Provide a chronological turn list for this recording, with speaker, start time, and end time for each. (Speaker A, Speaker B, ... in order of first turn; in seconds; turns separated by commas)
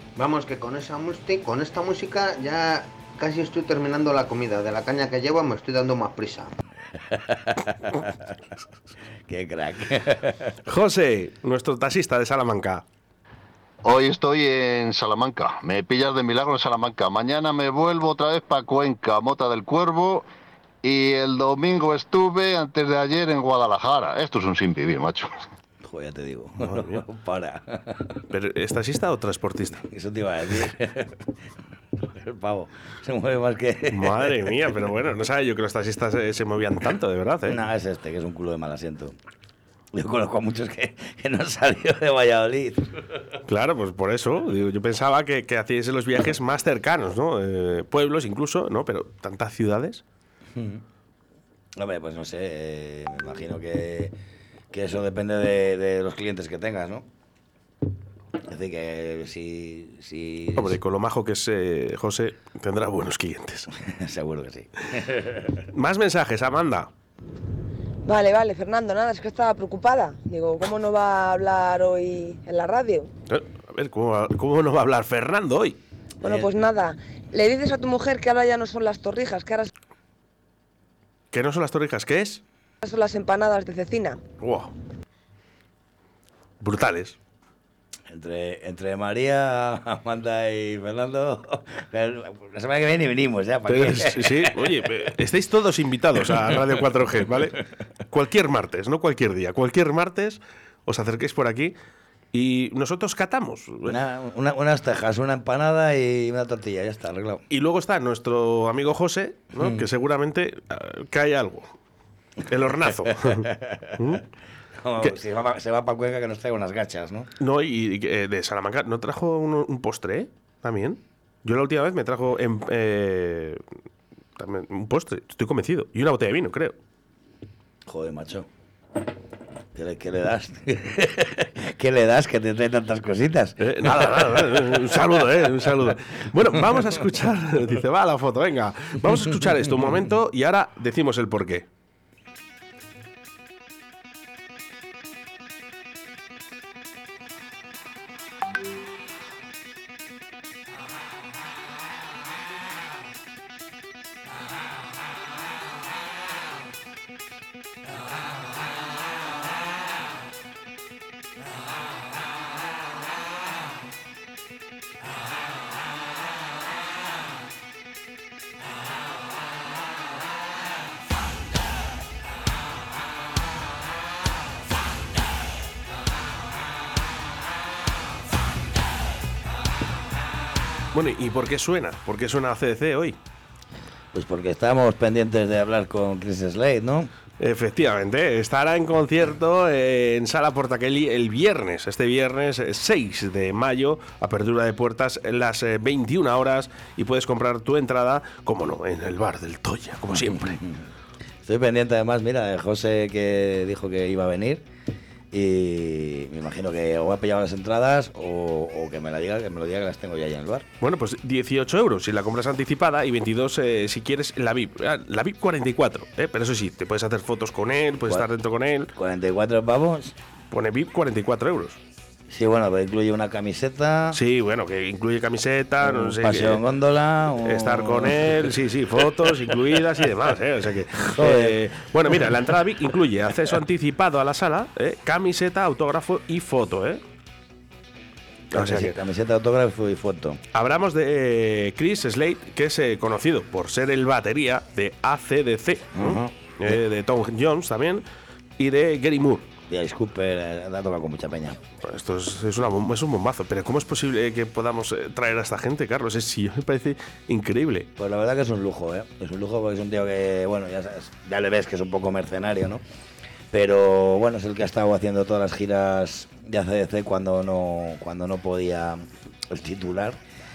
Speaker A: 0.1-6.5, Speaker B: 7.0-8.3, Speaker B: 9.3-10.5, Speaker C: 10.7-12.8, Speaker D: 13.8-20.2, Speaker D: 20.8-25.4, Speaker B: 25.8-28.2, Speaker C: 26.6-27.0, Speaker C: 28.3-29.8, Speaker B: 29.8-31.3, Speaker B: 32.0-34.3, Speaker C: 33.9-37.6, Speaker B: 37.4-39.2, Speaker B: 39.9-43.2, Speaker C: 43.5-50.0, Speaker B: 50.5-50.8, Speaker B: 51.8-54.1, Speaker B: 54.7-57.0, Speaker B: 58.4-60.8, Speaker C: 60.5-63.7, Speaker B: 63.8-65.6, Speaker C: 65.7-66.9, Speaker E: 68.0-73.1, Speaker C: 73.3-75.8, Speaker B: 76.2-76.5, Speaker E: 76.2-79.7, Speaker C: 81.3-82.4, Speaker E: 82.8-84.2, Speaker C: 84.4-84.7, Speaker C: 86.6-87.2, Speaker B: 88.1-95.0, Speaker C: 93.7-101.7, Speaker C: 102.3-103.9, Speaker B: 103.8-107.4, Speaker C: 107.5-111.7, Speaker C: 112.5-114.2, Speaker B: 113.2-113.9, Speaker B: 114.8-117.3, Speaker C: 117.4-123.6, Speaker C: 124.4-126.8, Speaker B: 127.8-128.5, Speaker B: 129.7-134.5, Speaker C: 133.6-141.7, Speaker C: 180.9-183.2, Speaker B: 184.1-187.1, Speaker C: 187.4-200.5, Speaker B: 200.1-200.8, Speaker B: 201.4-204.6, Speaker B: 205.3-210.7, Speaker C: 210.8-218.9, Speaker B: 218.9-220.1, Speaker C: 220.5-221.8, Speaker B: 222.3-224.2, Speaker C: 224.1-226.6, Speaker B: 225.8-228.4, Speaker C: 227.4-237.0, Speaker B: 231.0-231.6, Speaker C: 238.5-239.0, Speaker B: 238.5-240.4, Speaker C: 240.5-248.0, Speaker B: 245.9-246.8, Speaker C: 248.6-249.4, Speaker B: 249.7-251.6, Speaker C: 251.8-257.9, Speaker B: 257.9-262.8, Speaker B: 263.5-270.2